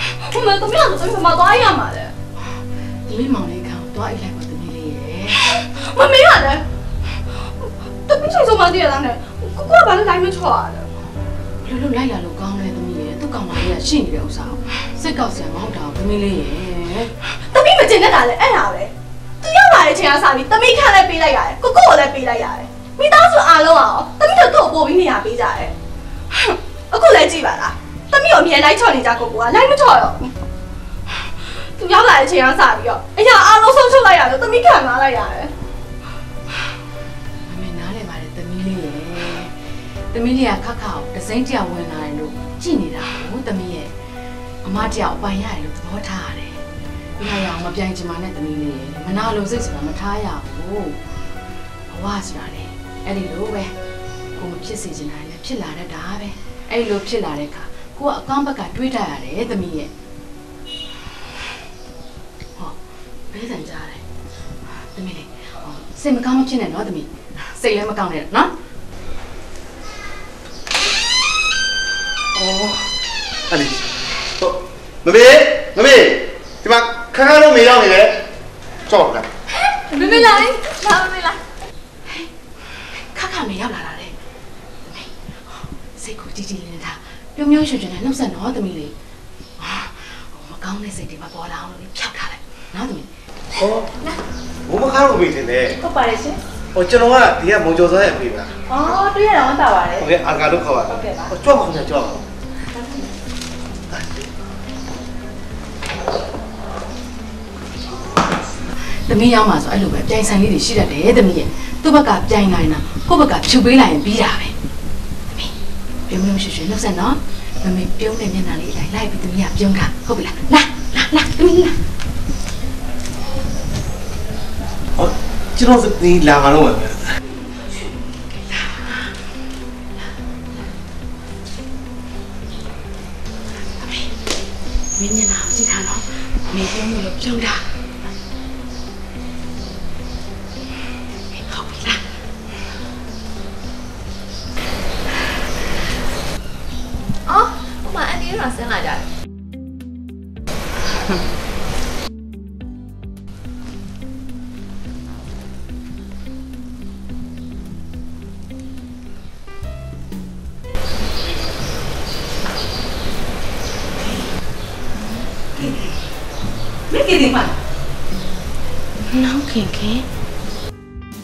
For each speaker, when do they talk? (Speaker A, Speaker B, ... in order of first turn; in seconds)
Speaker A: 0.2-2.1, 5.6-6.6, 8.1-10.9, 17.5-25.7, 26.3-30.3, 31.8-35.5
Speaker B: 3.1-5.4, 11.6-17.1, 37.5-39.5, 40.1-43.9, 44.6-46.5, 47.2-51.0, 51.9-53.7, 54.4-59.9, 63.3-64.0, 64.8-68.5, 83.1-84.1, 84.9-88.9, 89.6-93.1, 95.8-96.4, 98.7-100.1, 100.9-101.3, 109.1-114.5, 116.1-121.8, 128.5-129.0, 133.8-134.1, 135.0-137.7, 141.4-142.0, 166.9-167.5, 169.1-170.1
Speaker C: 72.4-72.8, 73.5-73.9, 74.4-78.2, 78.9-79.3
Speaker D: 79.9-81.3, 147.3-149.1
Speaker E: 93.5-93.9, 94.7-95.8, 96.7-98.5, 100.0-102.2, 125.0-127.0